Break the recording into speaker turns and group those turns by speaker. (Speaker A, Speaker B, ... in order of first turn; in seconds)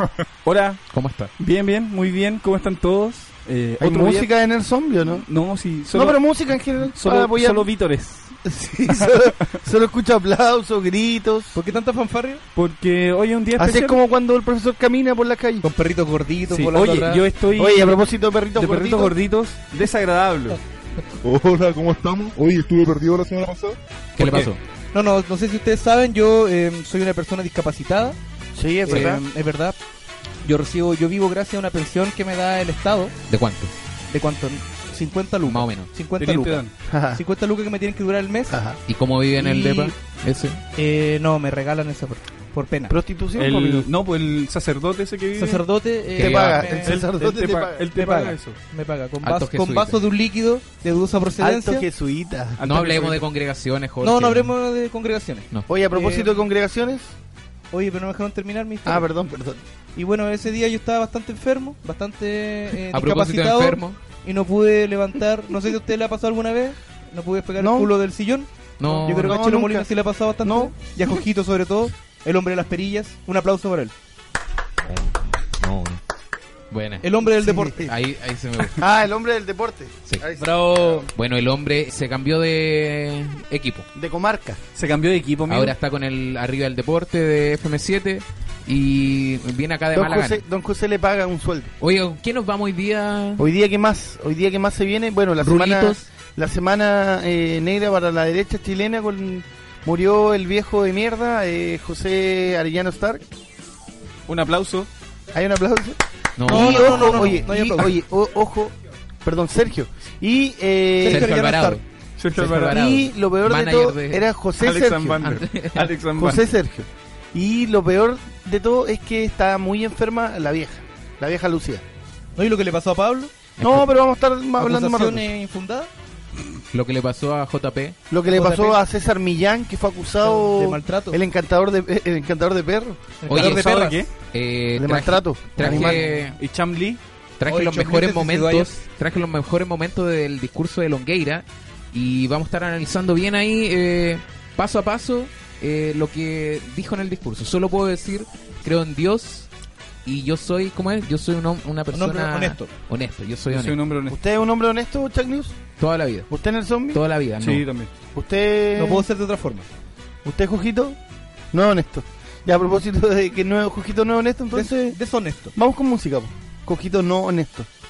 Speaker A: 0.5-0.8, 1.4-4.3, 5.2-8.3, 12.6-14.0, 16.5-18.0, 18.6-20.6, 24.2-24.5, 36.2-36.7, 43.4-45.6, 46.9-48.6, 52.6-53.2, 84.8-85.8, 104.3-104.9, 112.2-112.8, 114.6-116.4, 133.3-134.1, 135.6-137.0, 153.5-154.2, 157.4-157.9
Speaker B: 0.9-1.3, 24.2-24.6, 28.9-29.2, 33.3-33.7, 35.5-35.9, 38.9-40.6, 46.2-46.9, 49.2-50.0, 52.6-54.5, 62.9-64.0, 68.8-69.5, 74.9-76.0, 76.7-77.1, 77.8-78.8, 80.1-83.9, 85.5-90.4, 91.8-93.5, 95.4-96.0, 106.4-107.8, 111.0-111.8, 112.3-114.3, 115.3-115.8, 123.6-123.9, 126.7-128.0, 133.3-133.7, 134.3-136.4, 137.4-149.5, 150.1-153.8, 155.8-156.3, 156.9-157.7
Speaker C: 3.8-5.2, 5.9-7.7, 8.4-11.6, 13.6-15.7, 17.6-19.1, 28.6-29.2, 36.9-37.2, 38.5-38.8, 42.9-43.9, 46.2-47.9, 51.4-52.6, 55.7-57.1, 58.9-59.6, 67.6-67.9, 69.0-69.9, 70.4-70.8, 77.4-77.9, 78.8-80.7, 84.0-84.6, 89.9-91.7, 93.4-103.2, 105.3-111.3, 112.7-115.4, 116.2-121.8, 123.6-125.3, 128.1-133.2, 134.8-136.0, 154.1-155.6, 156.3-157.0, 158.1-159.1, 160.2-161.0, 161.5-165.0, 165.5-167.7
Speaker D: 11.5-12.4, 15.6-17.2, 24.9-28.2, 28.9-29.8, 30.4-33.1, 34.1-38.6, 39.4-39.9, 40.8-43.0, 45.4-47.0, 48.0-51.9, 54.0-56.4, 57.7-59.1, 60.0-73.9, 77.0-77.8, 106.5-107.9, 111.0-111.8, 122.4-123.3, 124.6-125.9, 128.3-128.8, 130.2-131.2, 133.2-134.0, 137.5-138.8, 151.9-152.7, 158.8-159.7, 164.5-165.5
Speaker E: 21.3-23.6